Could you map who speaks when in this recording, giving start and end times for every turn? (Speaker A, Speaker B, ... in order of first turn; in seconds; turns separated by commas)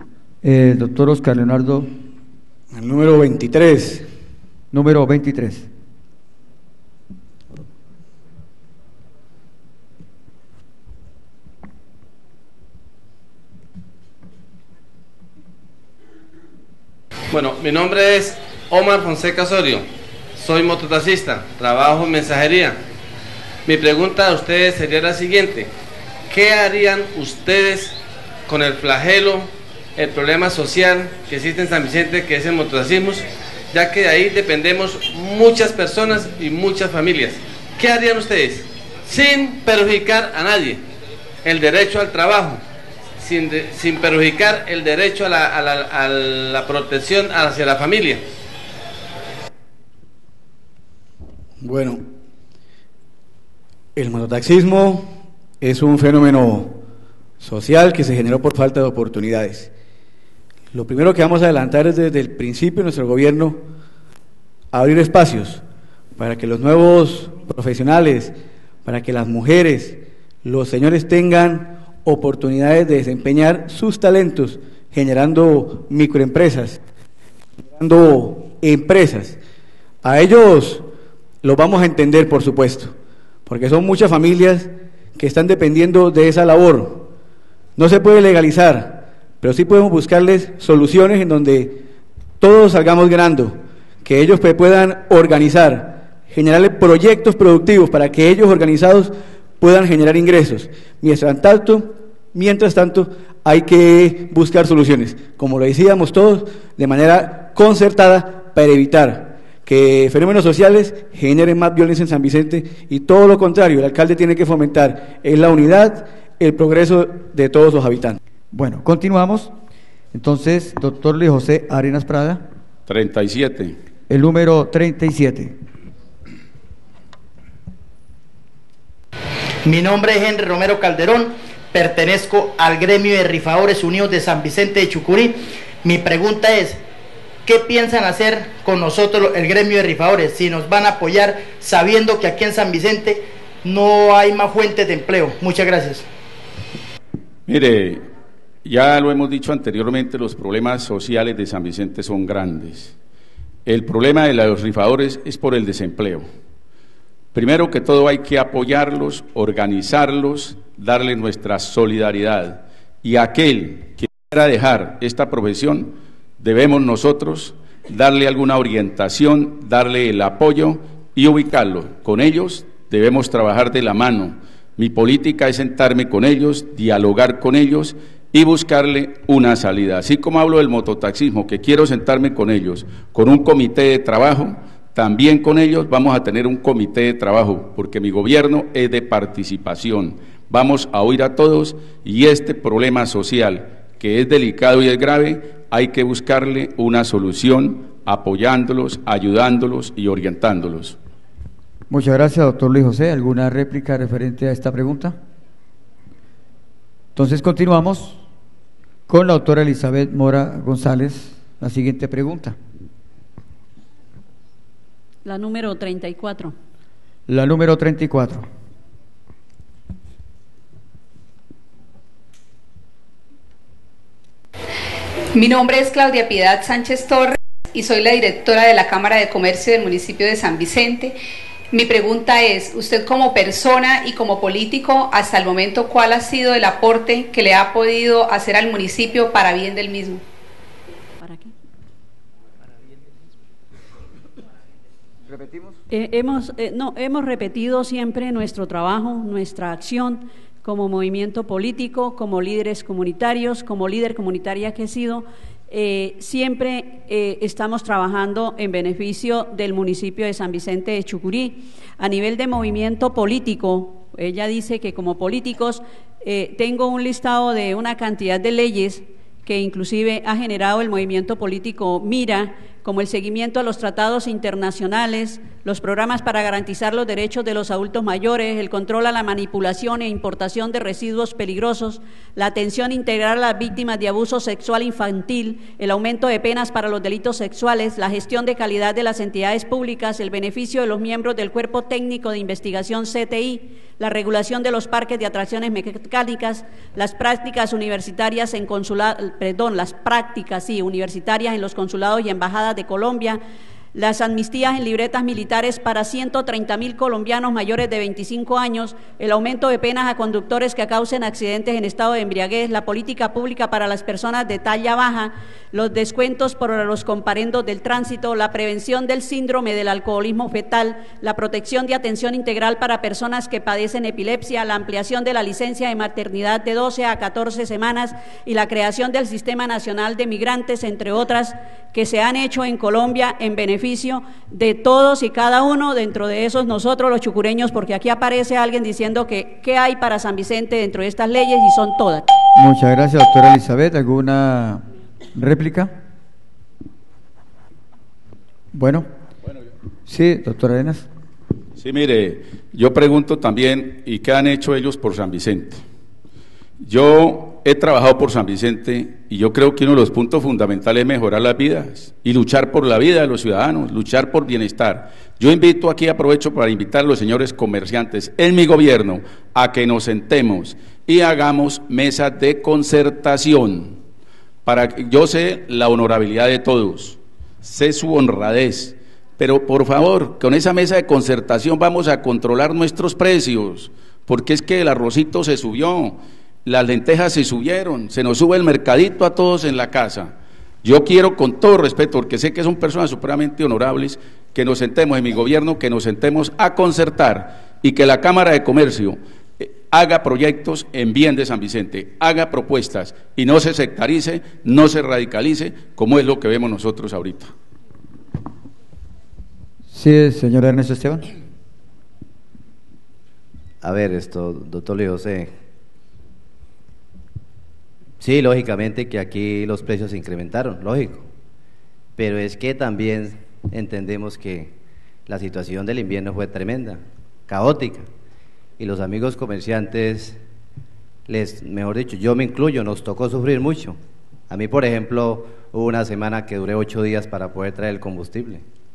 Speaker A: 0.4-1.9, Speaker B: 2.7-4.1, Speaker A: 4.7-5.7, Speaker C: 17.3-22.8, Speaker C: 23.6-25.7, Speaker C: 26.3-27.9, Speaker C: 28.5-40.8, Speaker C: 41.4-42.6, Speaker C: 43.2-48.2, Speaker B: 51.6-52.0, Speaker B: 54.0-56.8, Speaker B: 57.4-59.7, Speaker B: 60.7-63.6, Speaker B: 64.7-65.6, Speaker B: 66.2-68.3, Speaker B: 68.8-76.8, Speaker B: 77.8-79.4, Speaker B: 80.0-80.8, Speaker B: 81.4-82.9, Speaker B: 83.5-87.1, Speaker B: 87.8-91.8, Speaker B: 92.4-118.2, Speaker A: 118.5-119.5, Speaker A: 120.1-122.4, Speaker D: 122.9-123.8, Speaker A: 124.1-125.5, Speaker E: 129.6-136.8, Speaker E: 137.4-146.1, Speaker D: 147.5-148.0, Speaker D: 148.6-152.9, Speaker D: 153.7-156.2, Speaker D: 157.3-201.0, Speaker A: 201.9-205.2, Speaker A: 207.2-208.2, Speaker A: 209.1-212.6, Speaker F: 215.2-216.5, Speaker A: 217.3-218.4, Speaker G: 225.3-231.2, Speaker G: 231.7-240.2, Speaker F: 241.2-241.5, Speaker F: 245.9-303.4, Speaker F: 303.9-342.2, Speaker A: 342.6-344.8, Speaker A: 345.3-345.9, Speaker A: 348.7-349.1, Speaker A: 350.1-351.1, Speaker D: 351.8-355.8, Speaker D: 356.8-374.0, Speaker D: 374.6-407.5, Speaker A: 409.9-411.2, Speaker H: 413.8-415.5, Speaker H: 418.2-421.2, Speaker H: 422.2-424.7, Speaker H: 425.3-428.1, Speaker H: 428.8-430.4, Speaker H: 431.3-438.6